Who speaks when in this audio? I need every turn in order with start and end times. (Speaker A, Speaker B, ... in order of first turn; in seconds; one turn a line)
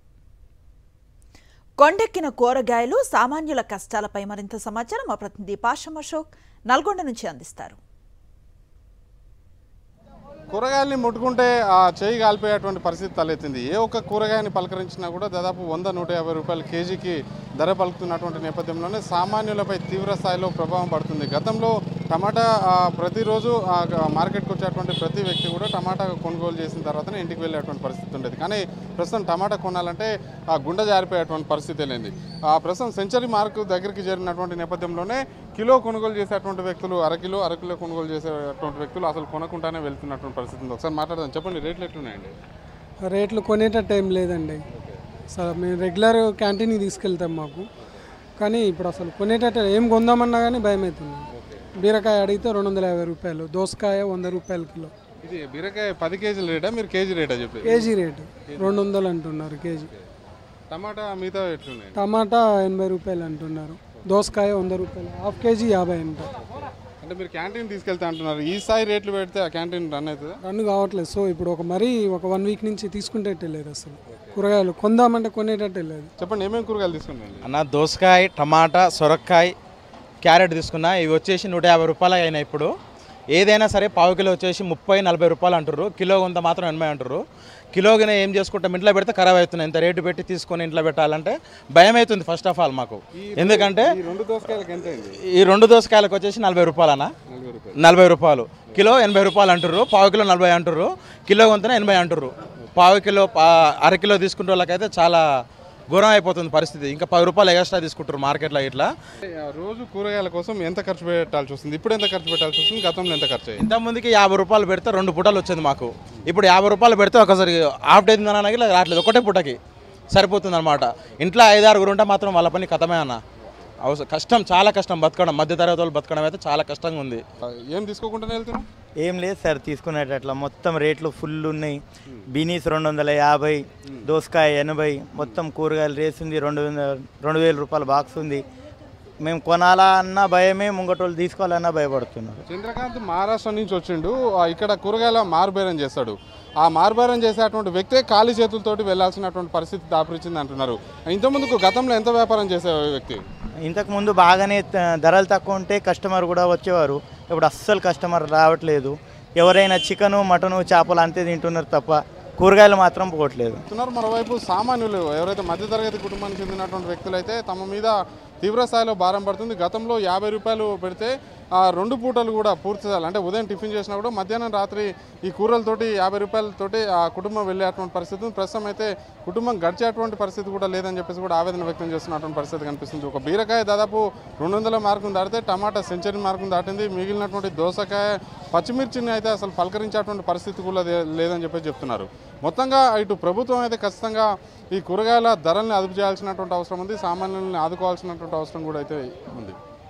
Speaker A: 1.8-7.8
Speaker B: 10.5-42.3
Speaker C: 43.0-44.6
Speaker C: 45.3-47.6
Speaker C: 48.4-51.2
Speaker C: 51.8-54.9
Speaker B: 55.2-57.9
Speaker C: 57.6-59.9
Speaker B: 58.5-58.8
Speaker B: 60.7-62.0
Speaker C: 61.9-66.3
Speaker B: 67.0-70.4
Speaker C: 70.4-76.1
Speaker B: 76.2-77.5
Speaker D: 77.4-79.5
Speaker D: 80.2-82.7
Speaker D: 83.3-87.2
Speaker D: 87.7-93.9
Speaker B: 93.1-95.2
Speaker D: 95.2-97.1
Speaker B: 97.3-97.8
Speaker D: 97.8-105.2
Speaker D: 105.9-108.9
Speaker B: 109.2-113.6
Speaker D: 113.6-119.6
Speaker D: 120.1-123.2
Speaker D: 123.8-127.2
Speaker B: 127.4-128.6
Speaker E: 129.0-138.4
Speaker E: 139.2-142.4
Speaker B: 142.5-153.2
Speaker E: 153.6-163.6
Speaker B: 163.7-199.6